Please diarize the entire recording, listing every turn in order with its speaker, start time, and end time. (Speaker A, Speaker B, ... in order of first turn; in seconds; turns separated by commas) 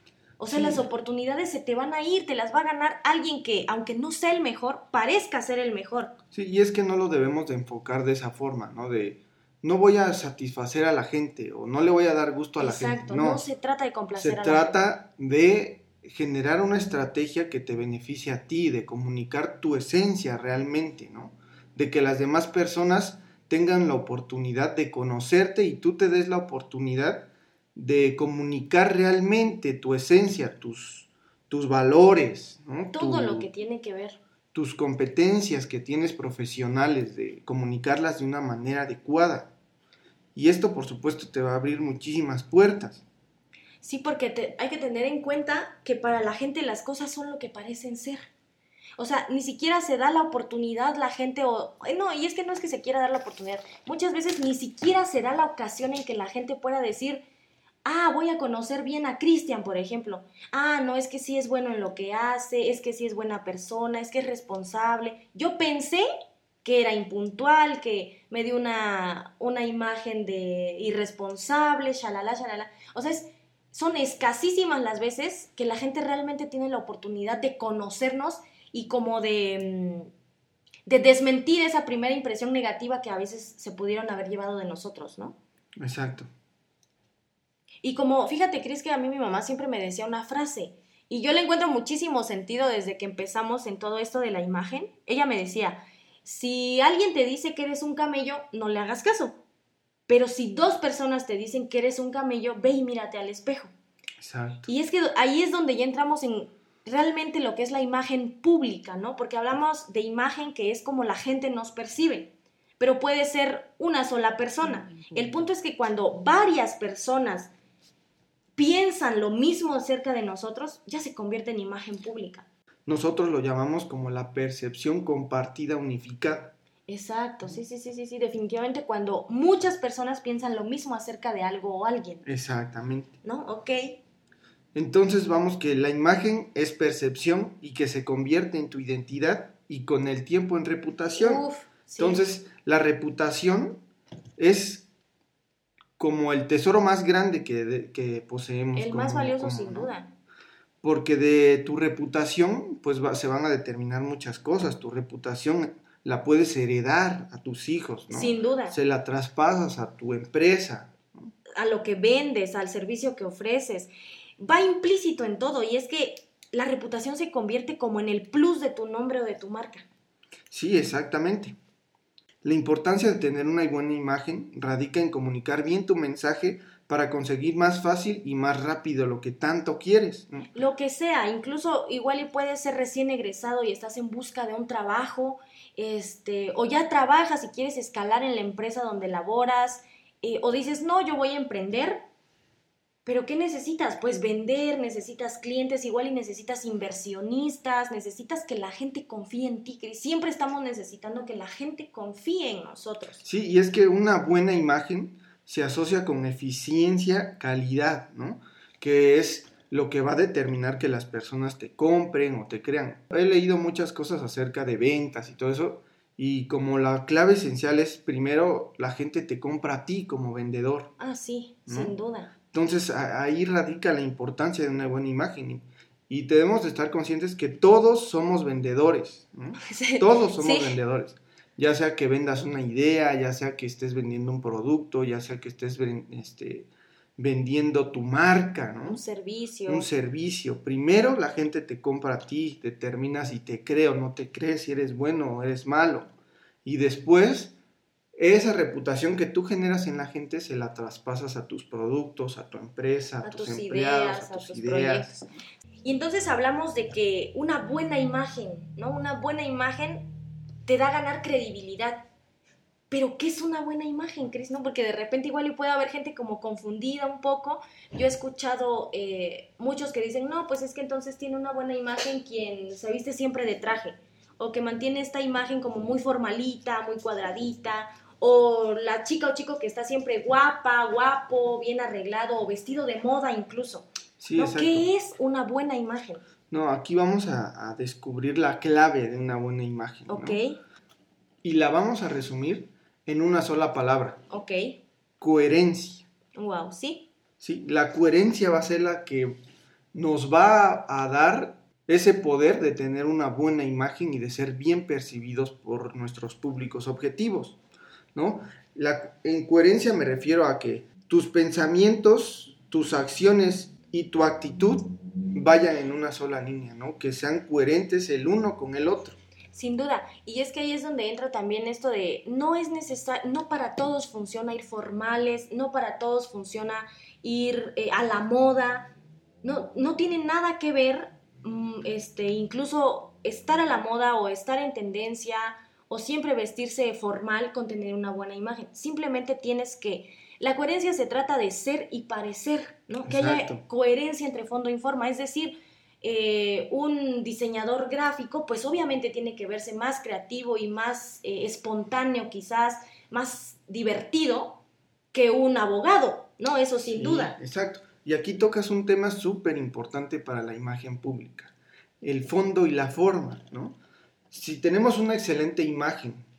Speaker A: 0.4-6.1, Speaker B: 0.5-0.8, Speaker B: 6.3-13.4, Speaker A: 12.6-14.8, Speaker B: 14.2-33.5, Speaker A: 32.9-34.2, Speaker B: 34.5-39.5, Speaker B: 40.4-43.0, Speaker A: 43.8-48.3, Speaker A: 49.0-57.2, Speaker A: 57.9-66.0, Speaker A: 66.6-80.1, Speaker A: 80.9-85.4, Speaker B: 85.8-86.3, Speaker A: 87.8-99.4, Speaker A: 100.1-103.7, Speaker B: 104.2-104.7, Speaker A: 104.7-117.5, Speaker A: 118.6-122.5, Speaker B: 122.9-126.5, Speaker A: 126.9-132.2, Speaker B: 132.2-133.1, Speaker A: 133.2-134.0, Speaker B: 134.7-141.4, Speaker A: 141.2-142.2, Speaker B: 142.0-143.8, Speaker B: 144.4-144.9, Speaker B: 146.0-149.9, Speaker A: 148.8-150.1, Speaker B: 150.8-161.3, Speaker A: 158.1-158.8, Speaker A: 161.6-169.9, Speaker B: 170.5-171.6, Speaker B: 172.4-180.5, Speaker A: 180.5-192.0, Speaker A: 193.0-203.2, Speaker B: 203.2-220.9, Speaker A: 221.0-222.3, Speaker B: 221.7-221.9, Speaker B: 222.5-239.0, Speaker A: 229.6-230.8, Speaker A: 238.9-239.9, Speaker B: 239.7-246.1, Speaker B: 246.6-247.5, Speaker B: 248.2-255.2, Speaker A: 253.2-255.2, Speaker A: 255.8-260.1, Speaker A: 260.6-262.1, Speaker A: 262.9-286.2, Speaker B: 284.2-284.9, Speaker B: 286.5-290.4, Speaker A: 290.1-290.6, Speaker B: 291.4-294.2, Speaker A: 294.3-294.8, Speaker B: 295.2-296.1, Speaker A: 296.4-297.1, Speaker B: 297.4-299.4, Speaker B: 299.9-307.6, Speaker B: 308.1-319.2, Speaker A: 319.5-354.6, Speaker B: 343.1-343.6, Speaker A: 355.1-357.4, Speaker B: 356.9-363.8, Speaker B: 364.3-366.2